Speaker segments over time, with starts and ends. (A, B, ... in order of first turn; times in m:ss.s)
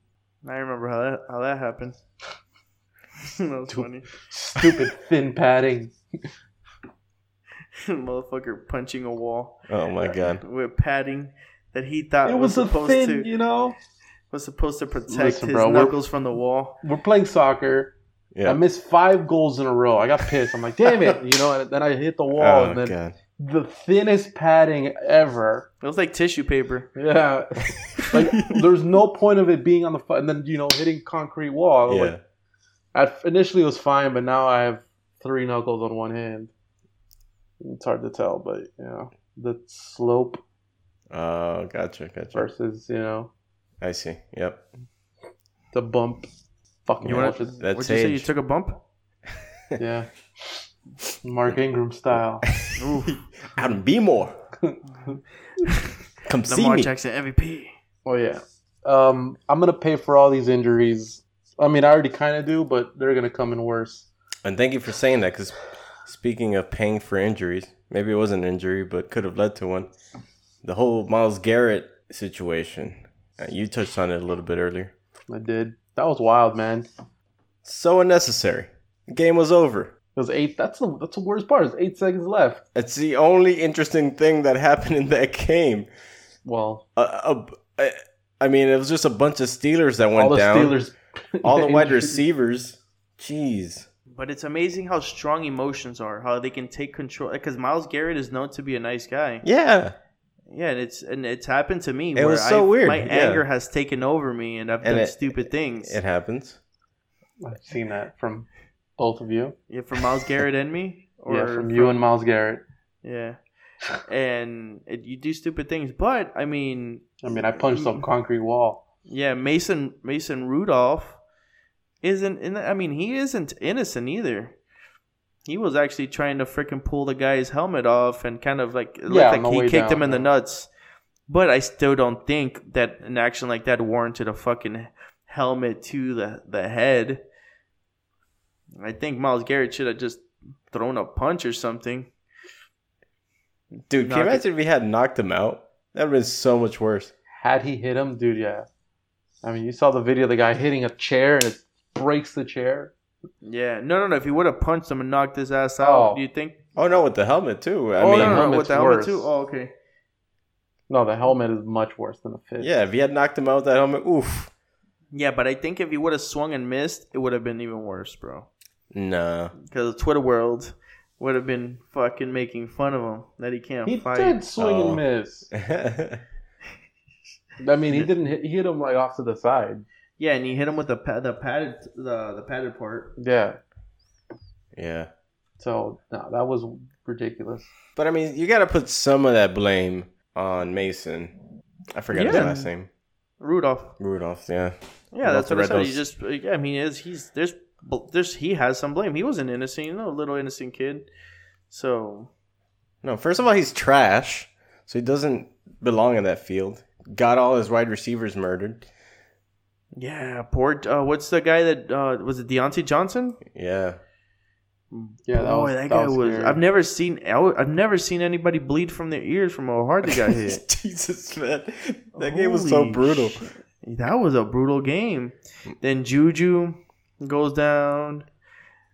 0:00.4-0:02.0 A
0:03.2-0:04.1 A
0:03.7-0:05.9 B
0:07.8-0:13.3 A
0:09.7-0:10.4 C
0:12.2-0:13.8 B
0:14.3-0:16.8 A
0:15.1-0:15.9 B
0:16.8-0:17.9 B
0:18.3-0:18.6 C
0:18.4-0:25.7 B
0:22.4-0:23.1 C
0:25.8-0:26.9 A
0:27.0-0:32.1 B
0:28.0-0:28.6 C
0:31.9-0:32.2 C
0:32.9-0:36.5 B
0:37.6-0:40.4 B
0:41.1-0:42.5 C
0:42.3-0:43.3 B
0:43.8-0:44.6 C
0:45.7-0:46.3 B
0:46.8-0:47.6 B
0:47.0-0:48.3 C
0:47.0-0:48.8 A
0:49.8-0:50.6 B
0:51.2-0:52.4 B
0:52.5-0:54.4 C
0:52.8-0:53.2 A
0:54.6-0:55.1 B
0:55.0-0:55.9 A
0:56.3-0:56.9 C
0:56.5-0:57.7 A
0:58.0-1:04.1 B
1:04.4-1:09.9 C
1:10.6-1:14.9 C
1:15.3-1:16.9 B
1:17.6-1:19.9 C
1:20.1-1:22.6 B
1:22.7-1:25.9 C
1:26.4-1:26.8 B
1:27.0-1:30.8 C
1:30.2-1:32.2 B
1:31.4-1:33.9 C
1:34.1-1:39.4 A
1:39.4-1:39.9 C
1:40.5-1:46.0 A
1:42.1-1:43.4 C
1:44.8-1:46.6 C
1:47.4-1:49.5 B
1:49.7-1:52.0 A
1:51.3-1:52.6 B
1:53.0-1:53.4 A
1:54.0-1:58.0 A
1:57.2-1:58.8 B
1:59.1-2:01.2 A
2:02.0-2:04.5 A
2:05.4-2:10.7 A
2:09.1-2:10.3 B
2:11.3-2:17.2 A
2:18.8-2:22.1 A
2:23.9-2:27.1 C
2:23.9-2:24.4 A
2:27.4-2:28.7 B
2:29.4-2:32.9 B
2:33.4-2:36.6 A
2:35.8-2:36.2 B
2:36.8-2:38.5 C
2:38.0-2:39.3 B
2:38.1-2:39.7 A
2:40.9-2:42.7 B
2:42.6-2:44.5 C
2:45.1-2:48.5 A
2:48.9-2:49.5 C
2:49.6-2:54.4 A
2:53.8-2:55.5 B
2:54.6-2:56.2 C
2:57.6-2:59.8 B
3:00.2-3:03.1 A
3:03.2-3:03.6 B
3:04.7-3:05.1 C
3:05.6-3:07.7 B
3:08.0-3:11.3 C
3:11.9-3:12.9 C
3:12.1-3:12.7 A
3:13.4-3:13.9 A
3:14.0-3:16.0 C
3:15.1-3:21.1 A
3:21.7-3:22.3 A
3:23.0-3:28.9 C
3:30.0-3:33.4 A
3:33.5-3:34.0 C
3:34.9-3:40.6 A
3:35.2-3:36.6 B
3:40.0-3:43.4 C
3:42.2-3:48.2 A